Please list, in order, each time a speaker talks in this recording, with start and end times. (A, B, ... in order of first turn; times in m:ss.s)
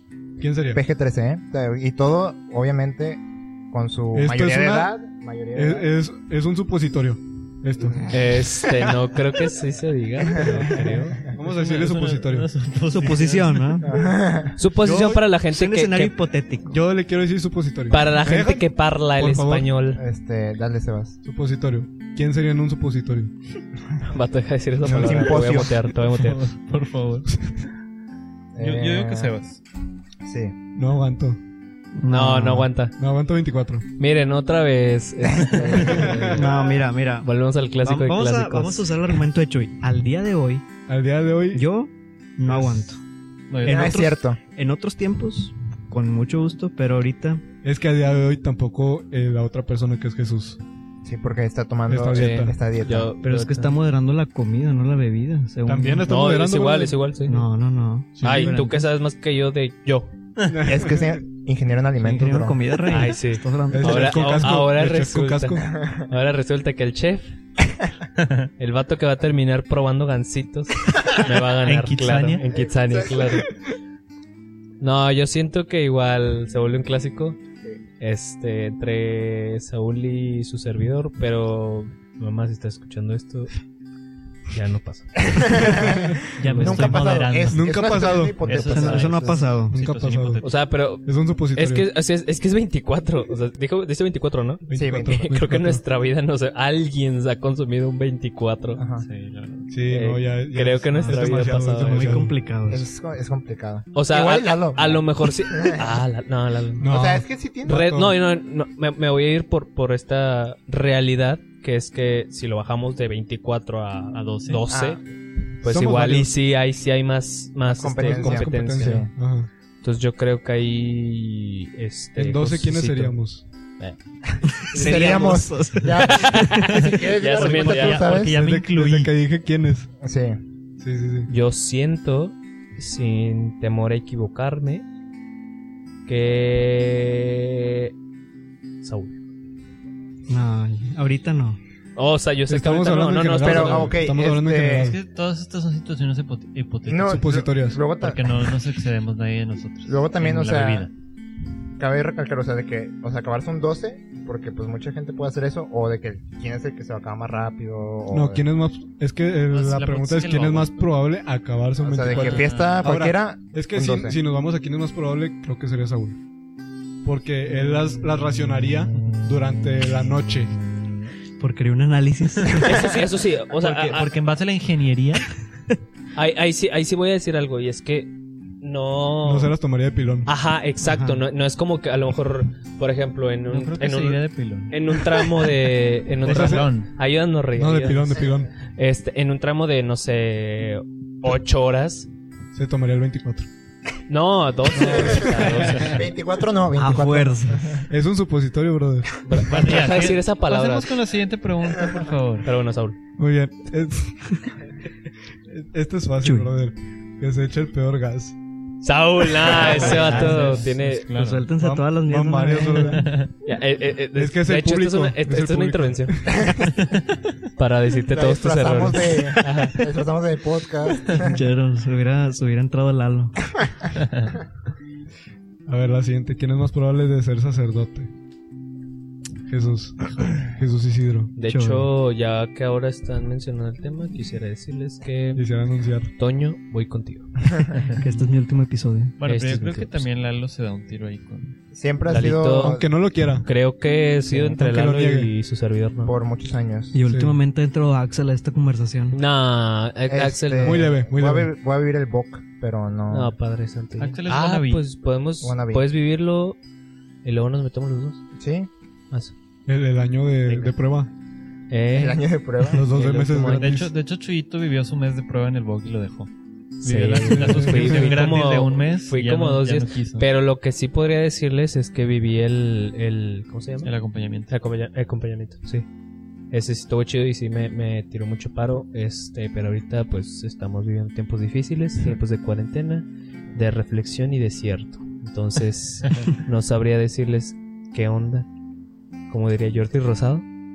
0:00.4-0:00.8 A
0:00.7-0:05.9 B
0:04.1-0:04.9 A
0:05.5-0:08.0 A
0:07.8-0:08.2 B
0:08.1-0:11.2 C
0:10.3-0:10.9 B
0:10.5-0:12.5 A
0:11.4-0:13.8 D
0:12.9-0:13.9 E
0:13.8-0:14.6 B
0:14.6-0:16.2 C
0:14.8-0:16.8 E
0:16.7-0:19.7 A
0:17.9-0:20.0 C
0:19.9-0:21.2 B
0:21.2-0:23.3 A
0:24.1-0:26.4 C
0:24.8-0:25.8 B
0:24.9-0:25.4 A
0:25.9-0:27.4 D
0:28.5-0:29.3 B
0:28.6-0:29.6 D
0:30.2-0:30.5 B
0:30.7-0:31.4 A
0:32.0-0:32.7 E
0:32.1-0:32.9 C
0:33.0-0:33.8 A
0:34.0-0:36.5 C
0:35.2-0:36.4 B
0:35.8-0:36.4 A
0:36.3-0:37.3 E
0:37.2-0:38.9 C
0:37.8-0:40.6 E
0:40.9-0:41.6 A
0:41.5-0:43.0 E
0:42.5-0:42.8 A
0:43.5-0:43.9 D
0:43.6-0:47.4 E
0:43.6-0:44.4 B
0:47.6-0:50.6 A
0:51.0-0:53.1 B
0:51.9-0:52.6 A
0:52.1-0:53.8 C
0:53.2-0:56.1 E
0:55.6-0:57.0 A
0:56.0-0:57.4 C
0:57.2-0:58.9 E
0:58.2-0:58.6 D
0:58.2-1:00.1 C
1:00.5-1:01.2 A
1:00.6-1:02.6 B
1:02.0-1:04.5 E
1:02.9-1:07.4 C
1:03.7-1:05.7 A
1:08.2-1:08.5 D
1:08.6-1:13.5 C
1:11.2-1:12.4 D
1:12.5-1:13.4 B
1:14.8-1:17.4 C
1:18.0-1:23.5 C
1:24.5-1:25.5 C
1:25.2-1:29.5 B
1:25.7-1:26.2 A
1:26.4-1:30.5 D
1:26.4-1:27.3 E
1:27.5-1:28.4 A
1:28.5-1:29.8 E
1:29.7-1:30.4 A
1:30.4-1:38.8 C
1:31.0-1:31.9 A
1:34.7-1:35.8 A
1:34.7-1:35.2 B
1:38.8-1:39.0 B
1:39.0-1:39.7 D
1:39.7-1:42.4 A
1:39.9-1:42.2 C
1:41.0-1:42.8 E
1:42.7-1:45.9 B
1:43.9-1:46.9 C
1:46.8-1:48.2 A
1:46.8-1:47.8 B
1:47.6-1:55.0 C
1:54.1-1:54.6 D
1:54.7-1:55.0 B
1:55.6-1:59.1 C
1:55.6-1:56.3 A
1:57.7-1:59.1 B
1:58.0-1:59.5 A
1:59.8-2:03.2 C
2:02.2-2:03.4 A
2:04.3-2:08.4 B
2:04.6-2:06.8 E
2:06.0-2:08.1 C
2:06.7-2:09.1 D
2:08.3-2:09.9 A
2:10.0-2:10.4 B
2:10.8-2:11.3 A
2:11.3-2:14.8 C
2:16.1-2:17.9 C
2:18.8-2:19.2 C
2:20.3-2:21.6 E
2:22.0-2:24.0 C
2:22.5-2:25.0 A
2:23.4-2:24.9 B
2:24.7-2:27.4 D
2:26.8-2:28.5 B
2:27.0-2:27.8 A
2:28.0-2:30.9 D
2:29.8-2:30.9 B
2:31.8-2:38.4 B
2:38.1-2:46.2 A
2:39.5-2:40.9 D
2:41.8-2:44.2 B
2:42.0-2:42.9 D
2:47.0-2:50.6 A
2:47.5-2:51.1 B
2:51.4-2:52.9 E
2:52.6-2:54.1 C
2:53.5-2:55.4 D
2:56.1-2:59.5 C
2:59.2-3:00.3 A
3:00.2-3:08.2 C
3:00.8-3:01.2 E
3:03.5-3:05.0 D
3:06.2-3:06.9 D
3:06.2-3:06.7 A
3:07.6-3:08.5 A
3:08.8-3:12.1 C
3:12.5-3:13.5 A
3:14.1-3:16.1 C
3:14.8-3:17.8 B
3:14.9-3:15.8 A
3:16.8-3:17.8 E
3:17.9-3:19.2 A
3:19.2-3:20.9 C
3:19.5-3:22.5 D
3:22.4-3:23.0 C
3:23.2-3:24.4 A
3:25.4-3:28.4 A
3:26.2-3:26.5 E
3:28.8-3:31.1 C
3:29.5-3:31.4 D
3:29.5-3:30.3 B
3:29.6-3:30.6 E
3:31.1-3:33.2 E
3:31.6-3:33.1 A
3:32.8-3:33.3 D
3:33.4-3:36.2 C
3:34.2-3:36.5 A
3:36.3-3:36.7 B
3:37.6-3:39.8 C
3:38.1-3:41.4 B
3:41.1-3:43.4 E
3:44.0-3:44.3 D
3:45.7-3:48.1 A
3:49.5-3:51.3 A
3:51.4-3:55.4 C
3:51.4-3:51.9 E
3:55.3-3:56.1 A
3:56.1-3:57.3 C
3:57.7-3:58.0 D
3:58.0-3:59.2 E
3:59.2-4:01.5 D
3:59.2-4:00.1 C
4:01.7-4:02.9 B
4:02.1-4:02.8 C
4:02.6-4:03.5 A
4:03.4-4:06.1 C
4:04.3-4:04.6 B
4:04.4-4:05.3 A
4:06.0-4:07.0 B
4:06.9-4:09.2 E
4:07.0-4:07.4 A
4:09.1-4:10.9 C
4:10.1-4:13.3 B
4:10.6-4:11.5 A
4:13.1-4:16.6 C
4:14.0-4:14.8 D
4:15.4-4:15.8 B
4:17.2-4:18.2 C
4:18.4-4:18.7 B
4:19.7-4:21.1 A
4:20.4-4:20.7 C
4:21.7-4:23.7 C
4:21.9-4:22.8 B
4:22.6-4:23.9 A
4:23.4-4:30.3 D
4:26.8-4:33.9 C
4:27.2-4:28.2 A
4:33.8-4:34.5 D
4:34.5-4:35.8 C
4:36.5-4:48.5 C
4:49.3-4:50.4 C